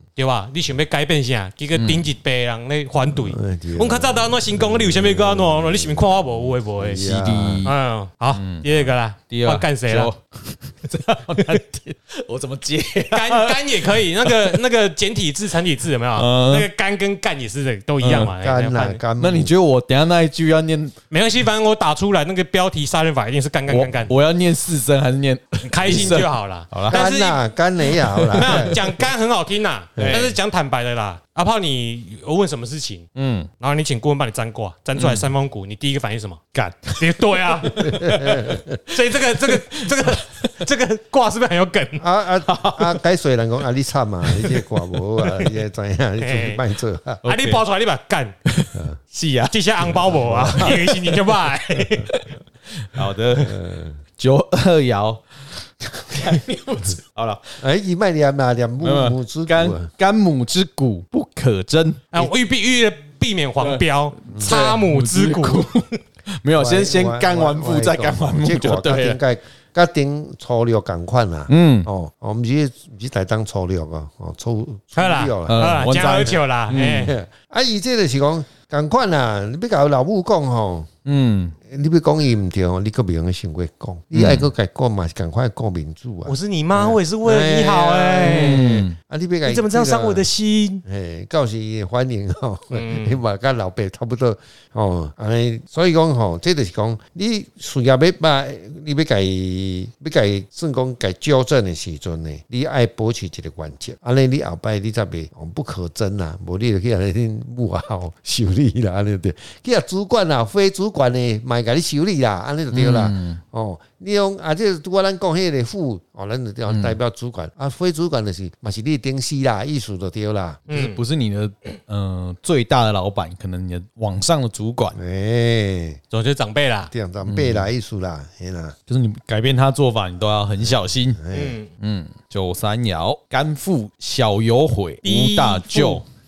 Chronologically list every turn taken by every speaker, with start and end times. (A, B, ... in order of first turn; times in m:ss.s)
0:00.2-0:07.1 A
0:01.8-0:02.0 B
0:03.1-0:07.7 C
0:07.0-0:07.7 B
0:07.6-0:10.1 A
0:08.3-0:14.6 B
0:11.4-0:11.6 A
0:13.1-0:19.0 A
0:16.1-0:16.7 B
0:18.0-0:18.3 B
0:18.4-0:19.5 C
0:19.2-0:21.0 B
0:21.1-0:24.1 A
0:23.7-0:27.0 B
0:25.6-0:27.4 A
0:26.9-0:28.8 C
0:28.0-0:28.8 B
0:28.3-0:33.1 A
0:30.0-0:30.3 C
0:30.0-0:30.2 B
0:33.2-0:33.5 B
0:33.6-0:36.4 A
0:35.0-0:35.3 B
0:36.5-0:38.6 B
0:37.0-0:38.3 A
0:37.8-0:38.8 C
0:38.8-0:42.0 A
0:39.4-0:40.5 B
0:42.0-0:47.2 C
0:42.4-0:43.0 B
0:44.2-0:44.7 B
0:46.2-0:46.6 A
0:47.2-0:47.6 B
0:47.2-0:48.3 A
0:48.4-0:51.5 B
0:49.5-0:52.1 A
0:49.9-0:50.8 C
0:52.0-0:53.6 B
0:53.4-0:54.0 C
0:54.2-0:55.2 B
0:56.1-0:57.6 B
0:57.6-0:59.9 C
0:58.8-1:02.3 B
1:02.1-1:05.9 A
1:03.6-1:09.2 B
1:04.3-1:04.6 C
1:06.5-1:15.7 C
1:11.5-1:11.9 B
1:15.0-1:17.1 A
1:15.5-1:17.1 B
1:17.0-1:20.9 C
1:21.0-1:21.6 B
1:21.6-1:30.3 C
1:24.1-1:24.5 B
1:26.2-1:28.6 A
1:28.2-1:28.9 B
1:29.4-1:30.8 A
1:30.8-2:00.6 C
1:32.7-1:33.2 A
1:52.7-1:53.4 B
1:56.7-1:57.0 B
2:00.7-2:01.0 A
2:00.7-2:05.0 B
2:04.9-2:06.0 C
2:06.1-2:06.9 A
2:06.9-2:08.8 C
2:07.2-2:07.7 B
2:08.9-2:11.2 B
2:10.6-2:11.6 C
2:11.3-2:11.7 A
2:11.8-2:16.0 B
2:15.0-2:16.0 A